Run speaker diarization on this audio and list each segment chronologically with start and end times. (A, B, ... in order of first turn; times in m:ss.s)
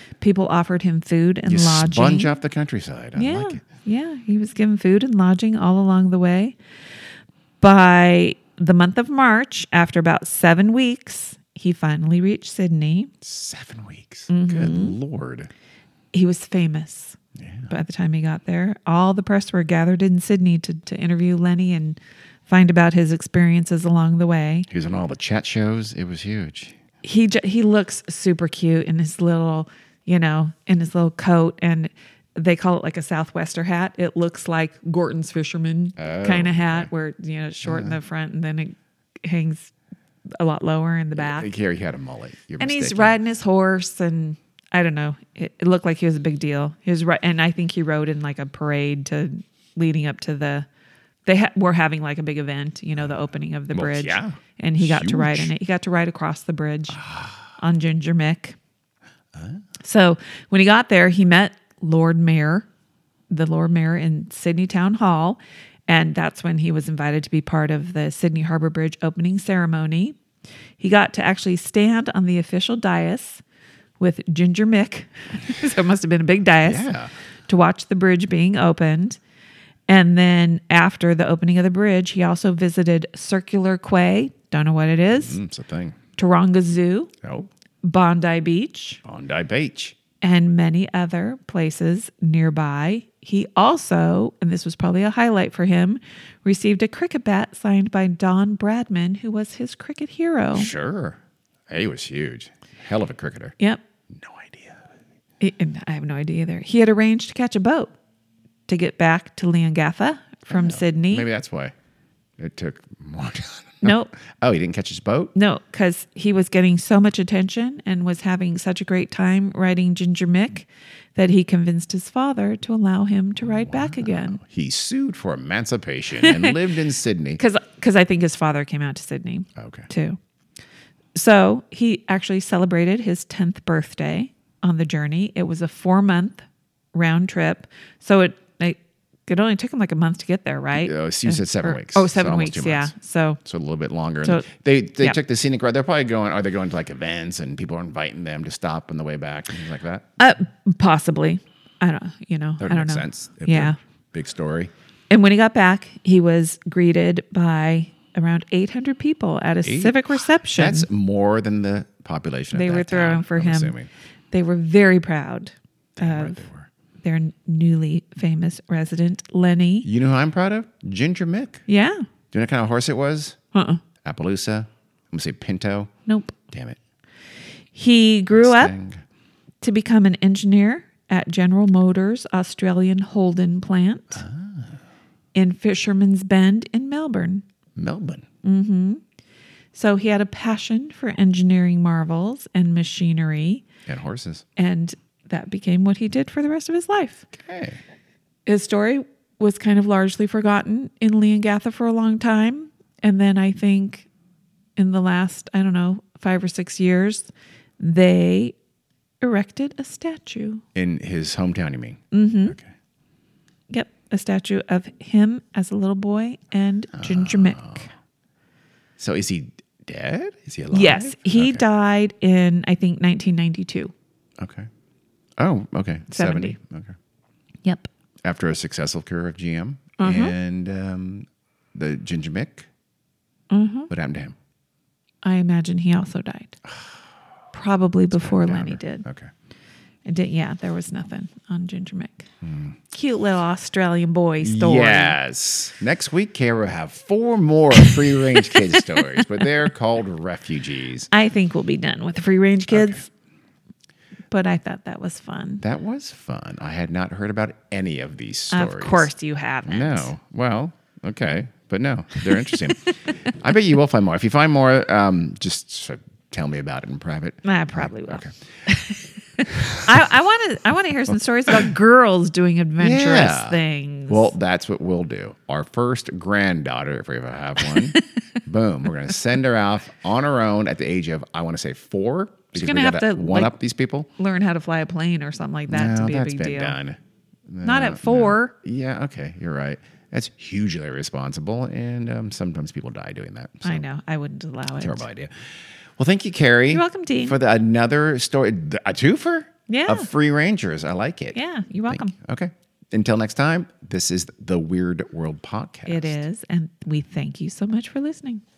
0:00.2-0:02.3 A
0:01.4-0:03.6 B
0:03.2-0:06.6 A
0:07.6-0:13.1 A
0:13.2-0:15.5 B
0:14.3-0:15.0 A
0:16.1-0:24.7 A
0:17.4-0:17.7 B
0:24.7-0:26.8 B
0:27.0-0:39.7 A
0:36.0-0:36.9 B
0:37.6-0:37.9 B
0:40.4-0:41.5 A
0:41.1-0:43.2 B
0:42.6-0:50.7 A
0:51.2-0:57.0 A
0:53.7-0:55.5 B
0:56.9-0:57.5 B
0:57.6-0:58.6 A
0:59.3-0:59.6 B
0:59.8-1:02.7 A
1:03.3-1:10.2 A
1:10.8-1:13.4 A
1:14.0-1:16.9 A
1:16.6-1:17.1 B
1:17.5-1:19.2 A
1:19.9-1:25.4 A
1:25.1-1:26.0 B
1:26.2-1:27.1 A
1:27.2-1:27.5 B
1:27.8-1:29.0 A
1:29.0-1:30.0 B
1:30.2-1:40.7 A
1:40.5-1:41.2 B
1:41.7-1:43.6 B
1:44.1-1:44.9 B
1:45.4-1:47.9 A
1:48.7-1:51.3 A
1:50.5-1:51.7 B
1:52.4-1:55.3 B
1:53.8-1:54.1 A
1:55.3-2:04.4 A
2:03.4-2:07.4 B
2:06.2-2:06.5 A
2:07.4-2:10.2 A
2:09.6-2:09.9 B
2:11.1-2:23.4 A
2:20.8-2:30.1 B
2:30.2-2:33.8 A
2:32.6-2:34.7 B
2:35.1-2:40.9 A
2:39.6-2:43.9 B
2:42.5-2:43.7 A
2:44.3-2:46.4 A
2:46.0-2:46.7 B
2:47.0-2:49.9 A
2:49.8-2:51.6 B
2:51.7-2:52.0 A
2:52.3-2:53.4 B
2:53.5-2:53.8 A
2:54.0-2:55.9 B
2:56.1-2:56.4 A
2:56.5-2:56.8 B
2:57.7-2:58.7 A
2:58.3-2:59.0 B
2:59.6-3:04.2 A
3:04.2-3:04.8 B
3:05.3-3:07.4 A
3:07.8-3:08.2 B
3:08.4-3:09.0 A
3:09.7-3:13.6 A
3:13.9-3:14.4 B
3:14.6-3:17.3 A
3:17.3-3:17.8 B
3:18.4-3:24.1 A
3:24.8-3:27.3 A
3:27.8-3:28.5 A
3:29.2-3:30.6 A
3:30.7-3:32.7 B
3:32.1-3:32.6 A
3:33.7-3:37.9 A
3:37.0-3:37.9 B
3:39.0-3:41.6 B
3:40.7-3:43.9 A
3:44.4-3:44.7 B
3:45.4-3:47.0 B
3:46.1-3:46.6 A
3:48.2-3:52.7 B
3:50.0-3:50.3 A
3:53.5-3:53.9 A
3:53.9-3:54.4 B
3:55.2-3:56.6 A
3:57.5-3:59.0 A
3:58.1-3:59.3 B
4:00.0-4:02.3 A
4:02.4-4:02.8 B
4:02.9-4:05.2 A
4:04.4-4:11.1 B
4:07.8-4:09.5 A
4:11.1-4:13.0 A
4:12.7-4:13.0 B
4:14.3-4:15.6 A
4:15.6-4:19.1 B
4:18.5-4:20.1 A
4:19.6-4:28.3 B
4:27.4-4:34.3 A
4:29.4-4:30.0 B
4:32.8-4:44.1 B
4:42.5-4:43.6 A
4:44.2-4:46.8 A
4:45.7-4:53.8 B
4:47.6-4:48.5 A
4:53.6-4:55.0 A
4:54.8-5:06.2 B
4:56.7-4:57.3 A
4:59.7-5:00.1 A
5:01.3-5:02.1 A
5:05.9-5:08.4 A